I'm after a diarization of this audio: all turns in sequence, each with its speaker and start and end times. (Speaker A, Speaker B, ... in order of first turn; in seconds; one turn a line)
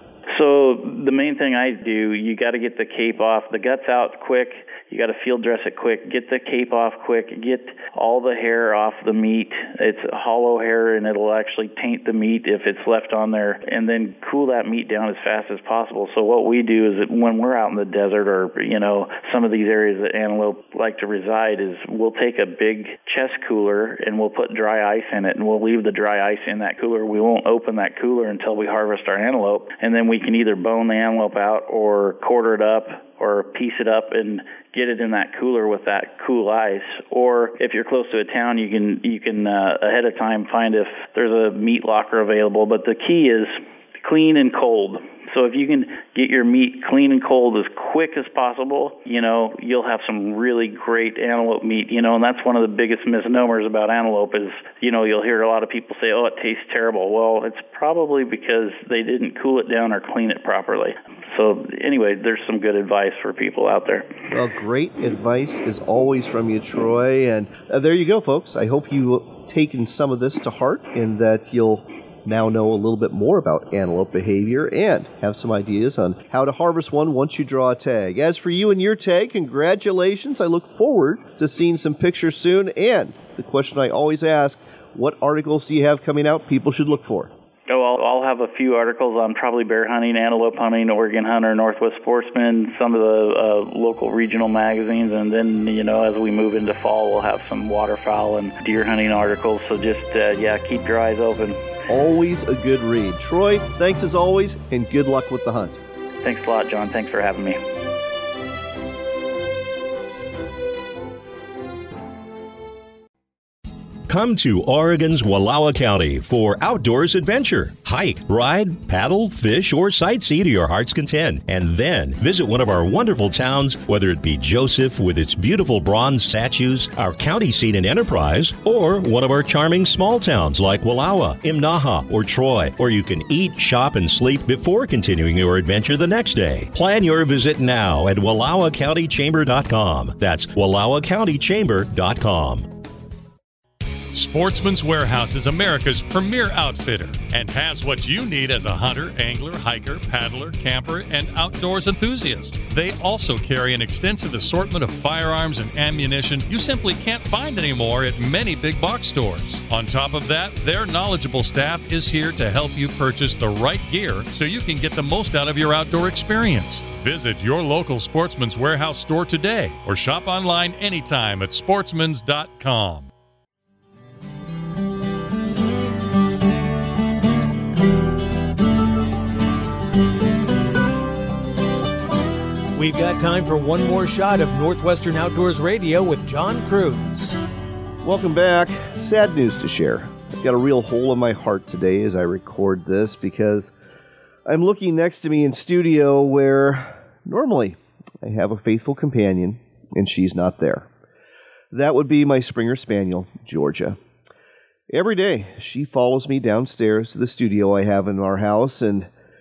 Speaker A: 0.3-64.1
Speaker B: 64.3-87.3
Speaker A: 87.7-101.6
Speaker B: 101.9-105.8
Speaker A: 106.2-107.6
Speaker C: 114.1-142.7
Speaker D: 144.1-173.1
Speaker E: 182.7-187.4
Speaker B: 188.0-193.7
Speaker B: 194.4-200.9
Speaker B: 201.7-204.0
Speaker B: 204.9-209.1